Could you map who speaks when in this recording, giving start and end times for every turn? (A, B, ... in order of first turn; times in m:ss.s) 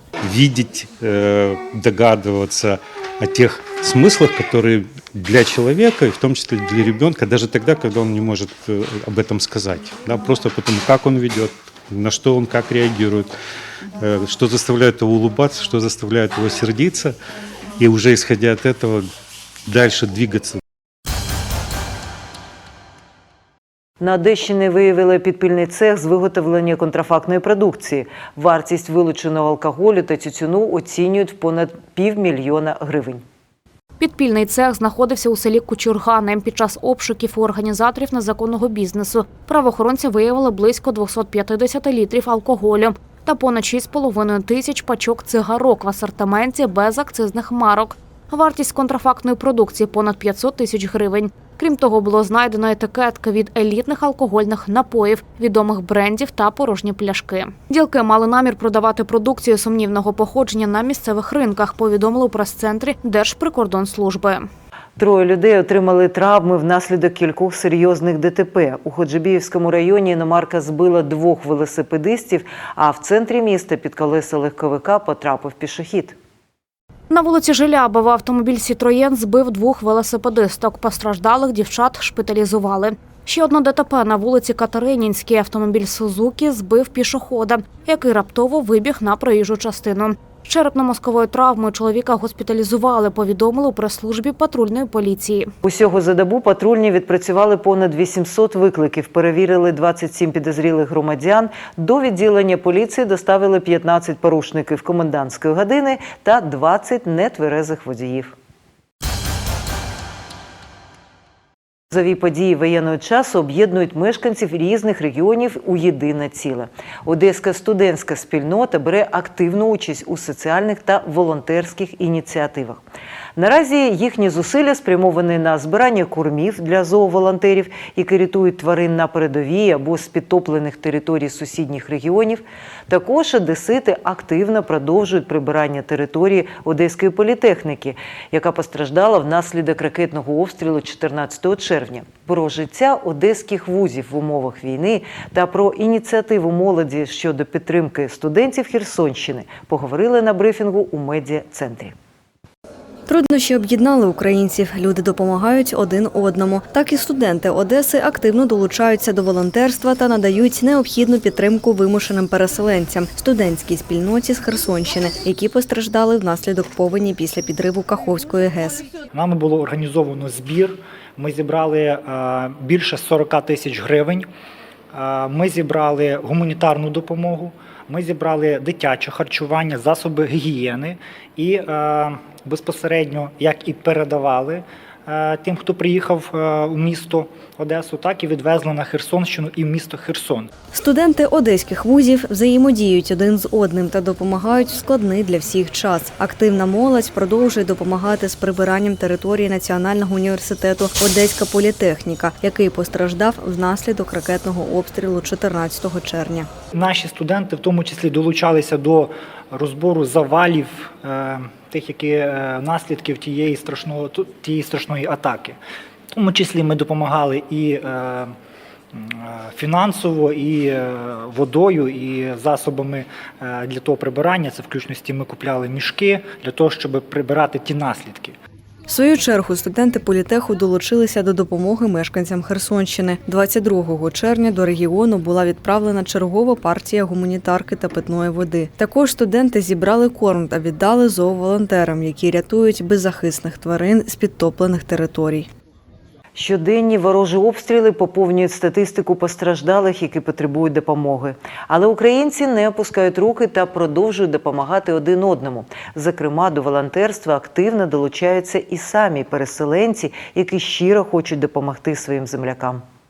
0:00.2-0:13.3 A
0:14.0-0:17.1 A
0:17.8-0:19.1 A
0:19.6-0:20.6 A
0:24.0-0:33.2 B
0:34.0-1:04.5 C
1:05.0-1:16.2 B
1:17.1-1:35.5 C
1:35.6-1:48.3 B
1:51.9-2:02.8 B
2:03.4-2:31.9 B
2:33.1-2:48.8 D
2:49.1-2:54.3 E
2:54.9-3:10.5 E
3:10.7-3:26.5 D
3:26.7-3:35.6 E
3:36.1-3:38.3 E
3:38.9-3:48.4 E
3:48.9-4:05.5 D
4:06.3-4:22.8 B